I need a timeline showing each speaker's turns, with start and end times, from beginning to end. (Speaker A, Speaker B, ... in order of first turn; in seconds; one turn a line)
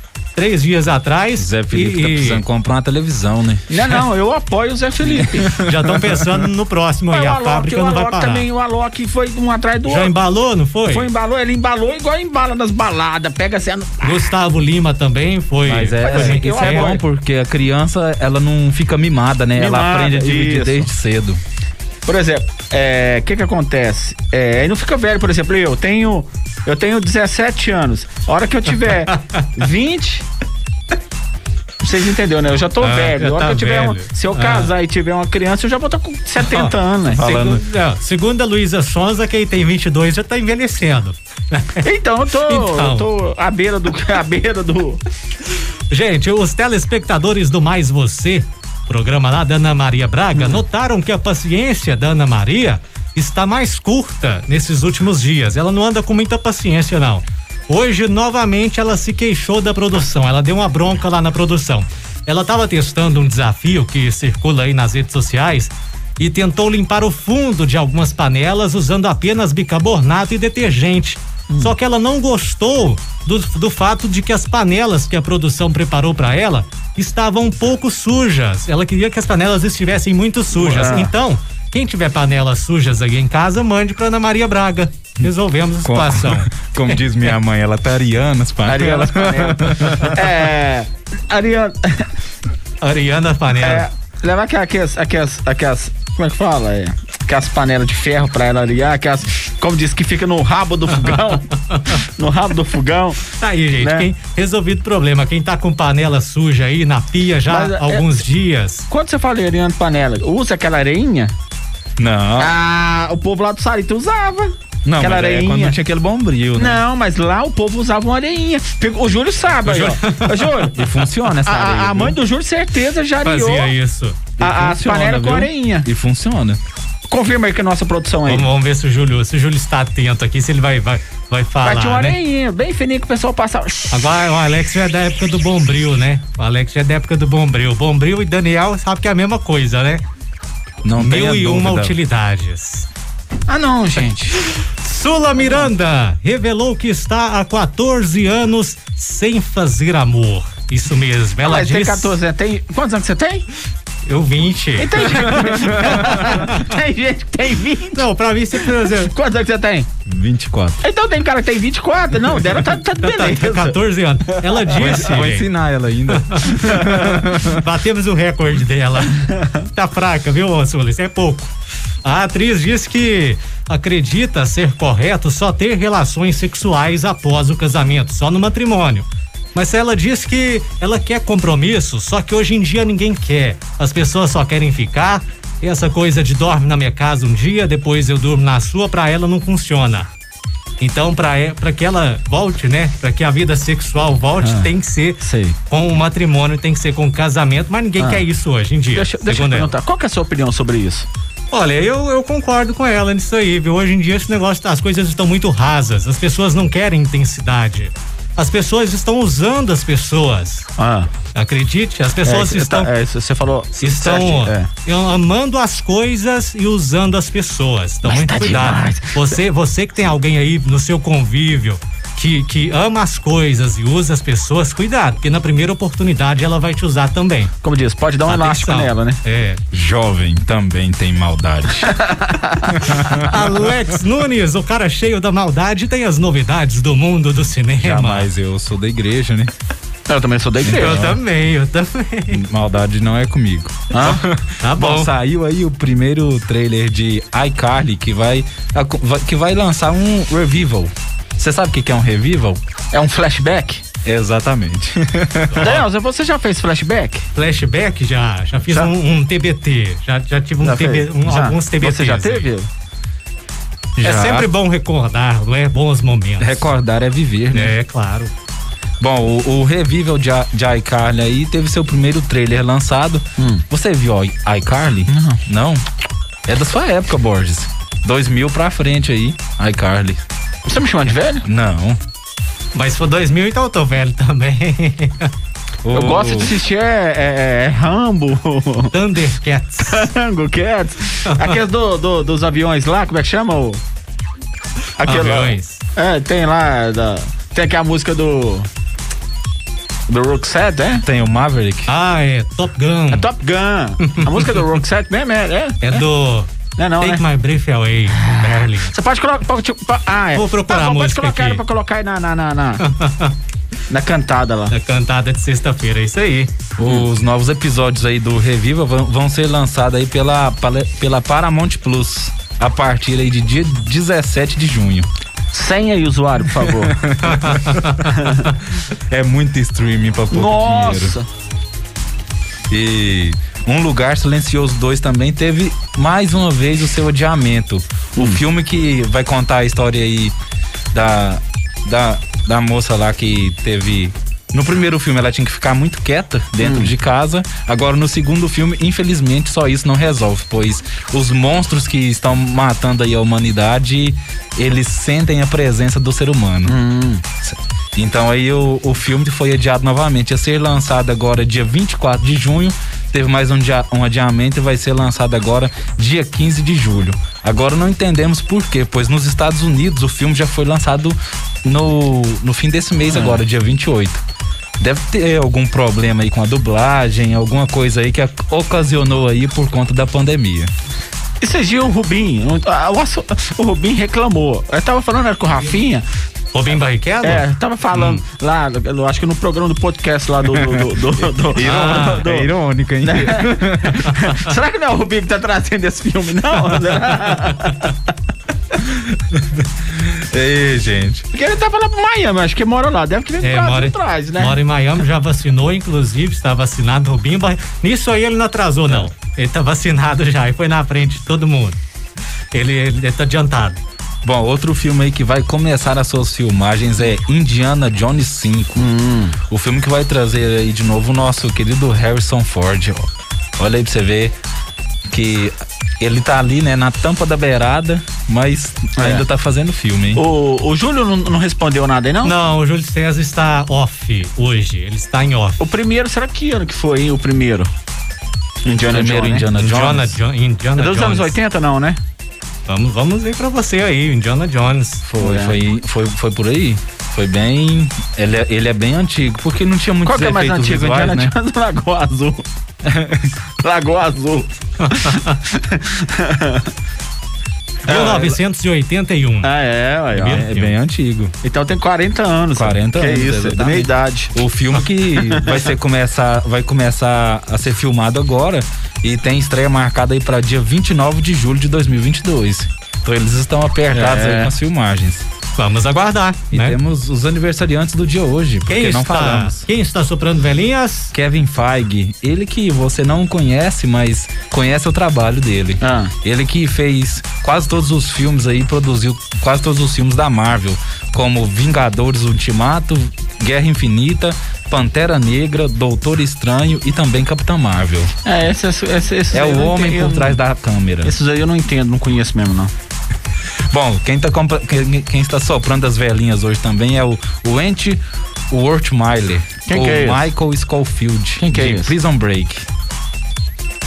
Speaker A: 0.3-2.4
Speaker B: 1.4-4.0
Speaker C: 3.7-5.5
Speaker B: 5.2-6.3
Speaker A: 5.5-8.5
Speaker C: 7.1-10.1
Speaker A: 9.8-11.1
Speaker C: 10.9-14.3
Speaker A: 14.0-16.9
Speaker B: 15.7-21.4
Speaker C: 16.0-17.0
Speaker C: 19.6-20.9
Speaker C: 22.1-30.2
Speaker A: 29.1-29.4
Speaker C: 31.8-37.6
Speaker A: 32.8-34.7
Speaker A: 36.4-36.7
Speaker B: 37.1-37.6
Speaker A: 37.3-41.8
Speaker C: 41.8-45.0
Speaker A: 42.5-43.1
Speaker A: 45.9-87.0
Speaker C: 71.5-71.8
Speaker C: 80.5-81.1
Speaker B: 85.8-90.1
Speaker C: 88.7-92.1
Speaker A: 92.8-93.9
Speaker C: 93.6-103.2
Speaker A: 103.4-108.9
Speaker C: 103.8-104.1
Speaker C: 107.5-108.1
Speaker C: 108.9-111.3
Speaker B: 112.0-112.5
Speaker C: 112.4-115.8
Speaker B: 114.8-116.8
Speaker C: 116.6-120.8
Speaker A: 119.6-120.5
Speaker B: 120.8-122.2
Speaker C: 121.4-123.7
Speaker A: 123.2-124.2
Speaker B: 124.4-126.6
Speaker C: 124.4-125.9
Speaker C: 127.1-128.5
Speaker A: 128.2-132.2
Speaker C: 131.6-134.0
Speaker A: 133.9-140.0
Speaker B: 140.8-141.9
Speaker A: 141.0-142.9
Speaker C: 143.5-144.4
Speaker A: 144.8-152.2
Speaker C: 145.4-145.6
Speaker C: 151.4-153.4
Speaker A: 154.1-156.6
Speaker C: 154.8-158.1
Speaker B: 155.8-156.2
Speaker A: 157.9-159.1
Speaker C: 158.8-159.9
Speaker B: 160.1-160.8
Speaker C: 160.8-163.8
Speaker A: 163.0-165.5
Speaker B: 164.7-167.6
Speaker A: 166.1-171.5
Speaker A: 172.0-190.1
Speaker A: 190.8-199.7
Speaker C: 194.4-194.7
Speaker C: 195.2-195.6
Speaker C: 198.0-198.2
Speaker C: 198.9-201.1
Speaker A: 201.5-210.7
Speaker C: 210.8-211.1
Speaker A: 211.3-212.9
Speaker C: 212.2-214.7
Speaker A: 213.8-227.5
Speaker C: 218.0-219.3
Speaker C: 227.6-229.2
Speaker A: 228.3-229.6
Speaker B: 229.7-232.0
Speaker C: 231.8-232.7
Speaker B: 232.8-233.7
Speaker A: 233.1-238.3
Speaker B: 237.8-239.5
Speaker C: 240.1-241.0
Speaker B: 240.6-241.2
Speaker A: 240.7-242.4
Speaker B: 242.3-252.6
Speaker C: 243.9-244.2
Speaker A: 244.6-245.1
Speaker C: 252.9-253.8
Speaker B: 254.0-255.8
Speaker A: 255.5-255.8
Speaker C: 255.6-257.2
Speaker A: 257.3-262.5
Speaker C: 260.6-262.7
Speaker B: 264.0-264.5
Speaker A: 264.0-266.7
Speaker B: 266.4-267.7
Speaker A: 267.5-268.3
Speaker B: 269.0-275.8
Speaker C: 273.4-273.6
Speaker C: 275.1-275.4
Speaker B: 276.5-280.2
Speaker C: 280.7-281.4
Speaker B: 281.4-282.0
Speaker A: 282.7-285.3
Speaker B: 285.8-286.5
Speaker C: 285.9-288.9
Speaker A: 288.9-290.1
Speaker C: 289.9-293.8
Speaker A: 291.3-291.6
Speaker C: 295.0-298.7
Speaker A: 295.1-295.8
Speaker C: 300.1-301.1
Speaker B: 301.0-301.9
Speaker A: 301.9-303.3
Speaker C: 303.1-306.0
Speaker A: 304.0-304.4
Speaker A: 305.8-308.9
Speaker C: 306.8-307.2
Speaker C: 308.2-312.8
Speaker A: 310.3-311.6
Speaker A: 312.8-313.3
Speaker C: 313.9-314.7
Speaker A: 314.7-316.5
Speaker B: 316.8-325.1
Speaker C: 316.8-317.1
Speaker C: 325.5-326.9
Speaker B: 326.9-328.1
Speaker A: 327.2-328.1
Speaker C: 328.2-328.4
Speaker B: 328.9-331.2
Speaker C: 330.3-331.2
Speaker B: 332.7-340.3
Speaker B: 340.9-356.8
Speaker C: 346.6-346.9
Speaker C: 356.7-357.2
Speaker B: 357.4-374.2
Speaker C: 373.1-373.4
Speaker B: 374.8-380.7
Speaker C: 381.4-386.1
Speaker A: 386.5-388.2
Speaker C: 387.2-392.5
Speaker B: 390.4-390.8
Speaker B: 391.5-394.1
Speaker A: 391.6-392.2
Speaker C: 393.0-397.9
Speaker B: 398.8-401.3
Speaker C: 401.3-404.6
Speaker A: 403.4-411.8
Speaker A: 412.5-413.8
Speaker B: 414.2-418.9
Speaker C: 418.8-419.4
Speaker B: 419.4-423.1
Speaker B: 423.6-424.3
Speaker B: 425.1-430.2
Speaker C: 429.0-429.2
Speaker C: 430.1-432.3
Speaker A: 432.2-435.6
Speaker C: 435.6-437.7
Speaker C: 438.7-439.5
Speaker B: 438.9-440.2
Speaker A: 439.6-441.4
Speaker C: 440.8-442.0
Speaker A: 442.7-445.1
Speaker B: 445.0-451.3
Speaker C: 445.2-445.6
Speaker C: 450.0-452.4
Speaker B: 452.8-453.2
Speaker C: 453.6-456.7
Speaker A: 454.8-455.3
Speaker A: 457.9-459.5
Speaker C: 457.9-458.3
Speaker B: 457.9-458.3
Speaker C: 459.4-460.4
Speaker A: 460.1-460.8
Speaker B: 460.2-461.3
Speaker C: 461.4-464.4
Speaker B: 462.6-475.2
Speaker C: 465.2-465.7
Speaker C: 473.9-474.5
Speaker A: 475.6-476.8
Speaker B: 476.5-479.7
Speaker A: 478.7-481.1
Speaker B: 481.1-498.1
Speaker C: 485.8-486.1
Speaker C: 498.2-500.4
Speaker B: 499.3-501.1
Speaker C: 501.0-502.7
Speaker B: 503.7-512.6
Speaker C: 509.7-510.3
Speaker C: 511.4-511.9